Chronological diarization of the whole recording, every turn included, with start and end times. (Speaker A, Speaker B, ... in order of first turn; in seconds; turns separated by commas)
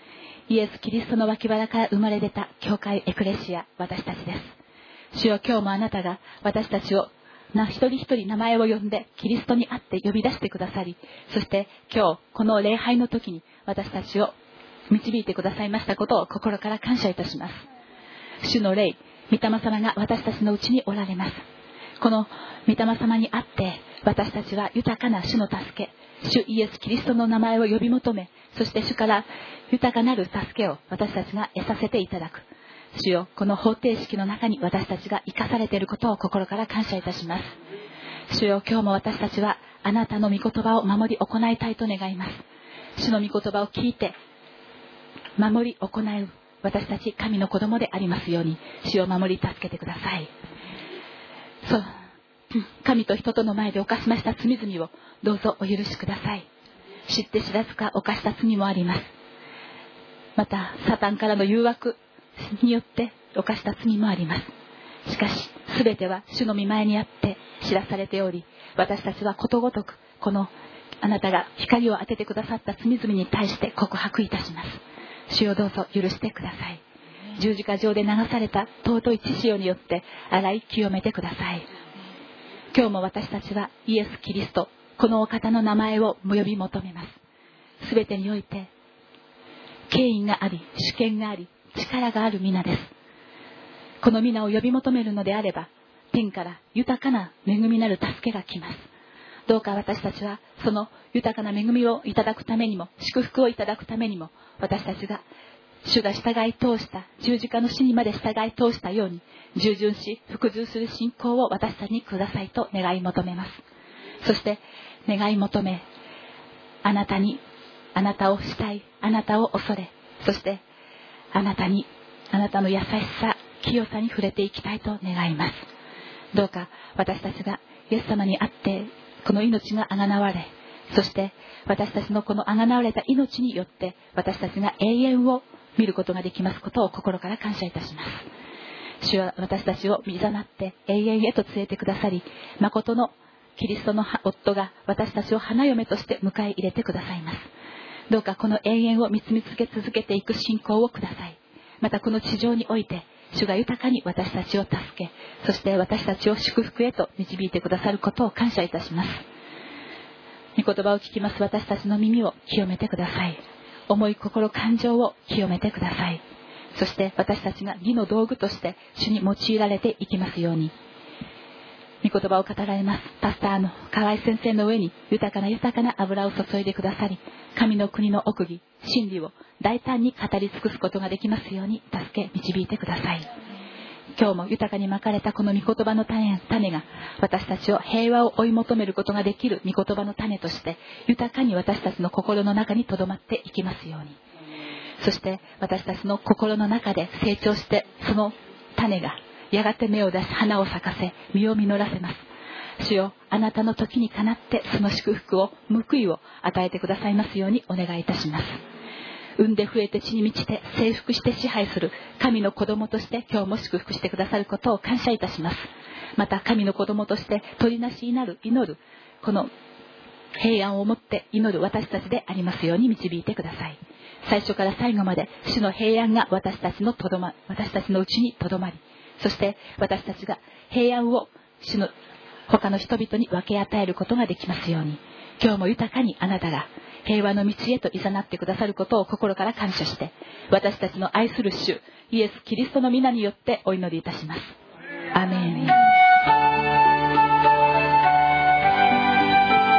Speaker A: 0.5-4.5, Speaker A: 5.1-14.3, Speaker A: 14.9-17.6, Speaker A: 18.4-21.4, Speaker A: 22.0-37.5, Speaker A: 38.3-42.4, Speaker A: 43.0-44.1, Speaker A: 45.4-50.3, Speaker A: 51.6-51.9, Speaker A: 52.5-56.5, Speaker A: 57.1-59.1, Speaker A: 60.4-64.5, Speaker A: 65.0-70.5, Speaker A: 71.0-76.8, Speaker A: 77.3-81.6, Speaker A: 82.7-87.2, Speaker A: 87.8-88.7, Speaker A: 89.9-92.9, Speaker A: 94.0-98.9, Speaker A: 99.5-105.2, Speaker A: 105.8-113.6, Speaker A: 114.2-115.8, Speaker A: 116.8-117.4, Speaker A: 117.9-120.6, Speaker A: 121.3-125.7, Speaker A: 126.3-138.2, Speaker A: 139.0-147.5, Speaker A: 148.1-159.2, Speaker A: 160.6-163.4, Speaker A: 163.9-166.2, Speaker A: 166.7-170.7, Speaker A: 172.0-183.3, Speaker A: 184.2-194.2, Speaker A: 195.0-202.2, Speaker A: 202.8-208.6, Speaker A: 209.4-219.5, Speaker A: 220.4-231.9, Speaker A: 232.5-244.5, Speaker A: 245.1-245.8